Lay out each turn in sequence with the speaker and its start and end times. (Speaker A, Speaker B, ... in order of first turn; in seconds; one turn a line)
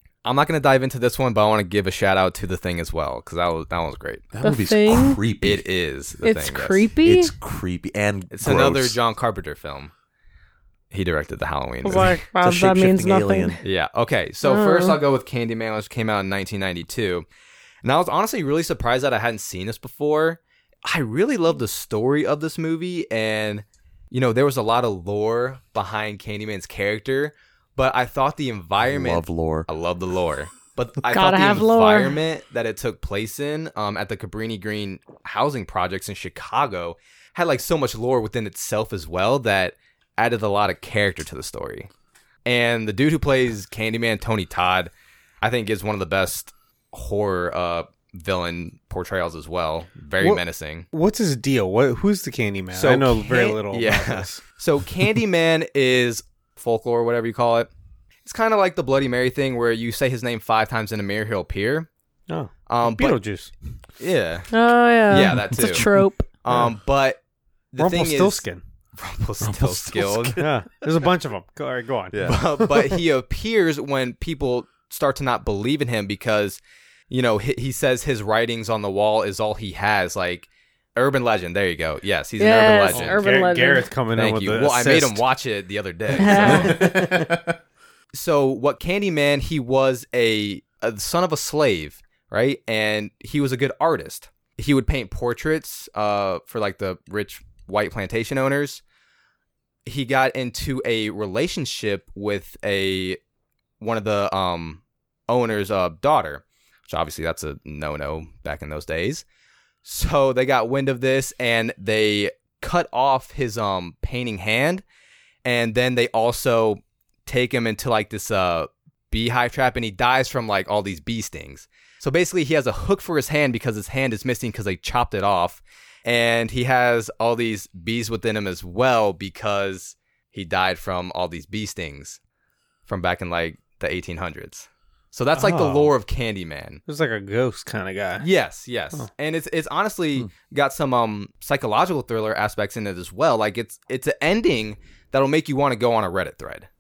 Speaker A: 0.2-4.2
Speaker B: 4.3-5.6
Speaker C: 4.4-5.2
Speaker A: 5.4-6.9
Speaker C: 6.2-7.3
Speaker B: 7.0-9.0
Speaker A: 8.3-9.9
Speaker A: 10.9-12.2
Speaker C: 11.8-13.6
Speaker B: 12.4-13.6
Speaker A: 13.6-17.2
Speaker C: 14.4-15.0
Speaker A: 17.8-41.9
Speaker B: 28.9-29.7
Speaker C: 31.1-32.2
Speaker A: 42.5-44.9
Speaker A: 45.4-50.9
Speaker D: 50.2-54.4
Speaker A: 52.7-57.7
Speaker A: 58.2-61.9
Speaker D: 62.3-63.5
Speaker A: 62.7-63.2
Speaker A: 64.0-64.5
Speaker C: 64.5-66.3
Speaker A: 65.1-65.9
Speaker A: 66.4-67.2
Speaker A: 67.7-68.4
Speaker D: 67.8-68.6
Speaker A: 69.0-70.4
Speaker B: 69.4-70.5
Speaker D: 70.4-72.3
Speaker B: 72.1-72.4
Speaker A: 72.2-83.2
Speaker C: 82.4-83.9
Speaker D: 82.9-85.2
Speaker A: 84.1-86.8
Speaker C: 86.2-86.9
Speaker D: 86.2-87.3
Speaker B: 86.4-87.5
Speaker A: 88.1-98.8
Speaker A: 99.8-103.2
Speaker A: 103.8-109.2
Speaker A: 109.8-114.8
Speaker A: 115.4-132.2
Speaker A: 132.9-136.8
Speaker D: 135.3-135.9
Speaker D: 136.8-138.2
Speaker A: 138.2-146.7